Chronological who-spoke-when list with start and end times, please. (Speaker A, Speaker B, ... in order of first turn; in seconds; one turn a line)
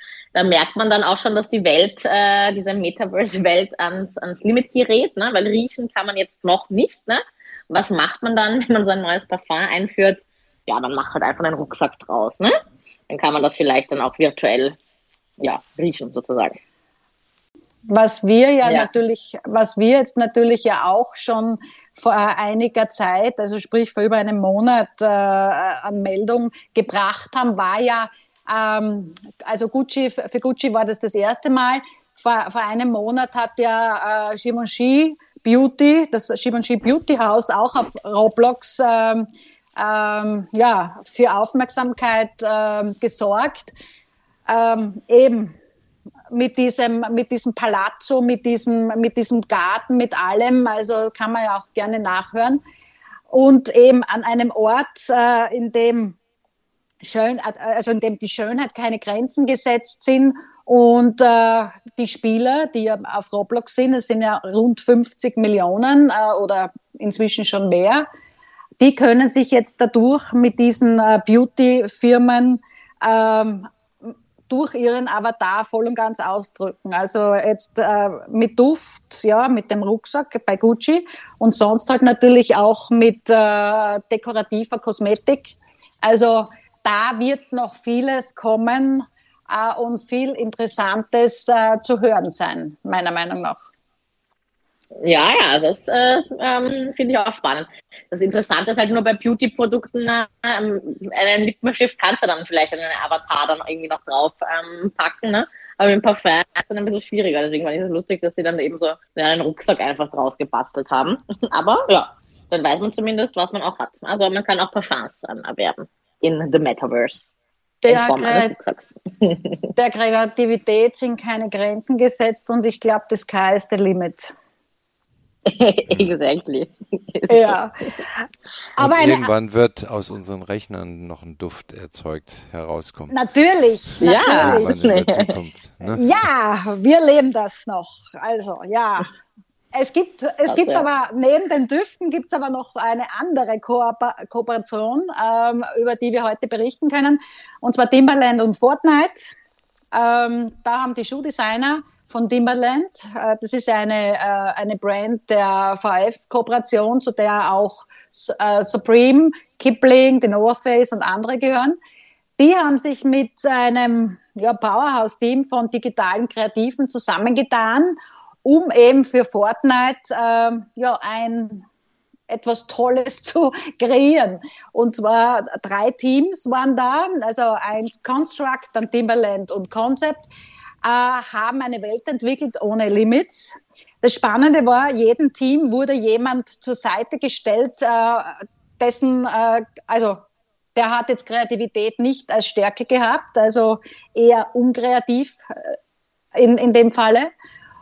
Speaker A: 0.3-12.5
Speaker A: 13.1-14.8
Speaker A: 15.4-16.6
Speaker B: 17.9-43.7
Speaker A: 18.6-18.9
Speaker B: 44.5-45.5
Speaker B: 46.3-52.6
Speaker B: 53.3-56.2
Speaker B: 57.0-68.0
Speaker B: 68.8-93.6
Speaker A: 95.0-117.2
Speaker B: 117.8-118.5
Speaker A: 117.9-119.7
Speaker B: 119.8-124.3
Speaker A: 125.5-127.6
Speaker B: 127.3-129.3
Speaker C: 128.8-133.2
Speaker B: 133.1-134.8
Speaker A: 134.0-135.3
Speaker C: 134.0-136.2
Speaker B: 135.9-139.1
Speaker B: 139.7-149.3
Speaker A: 140.5-140.8
Speaker B: 149.9-161.8
Speaker B: 162.4-171.7
Speaker B: 172.3-180.3
Speaker B: 180.8-190.2
Speaker B: 190.8-195.8
Speaker B: 196.3-197.3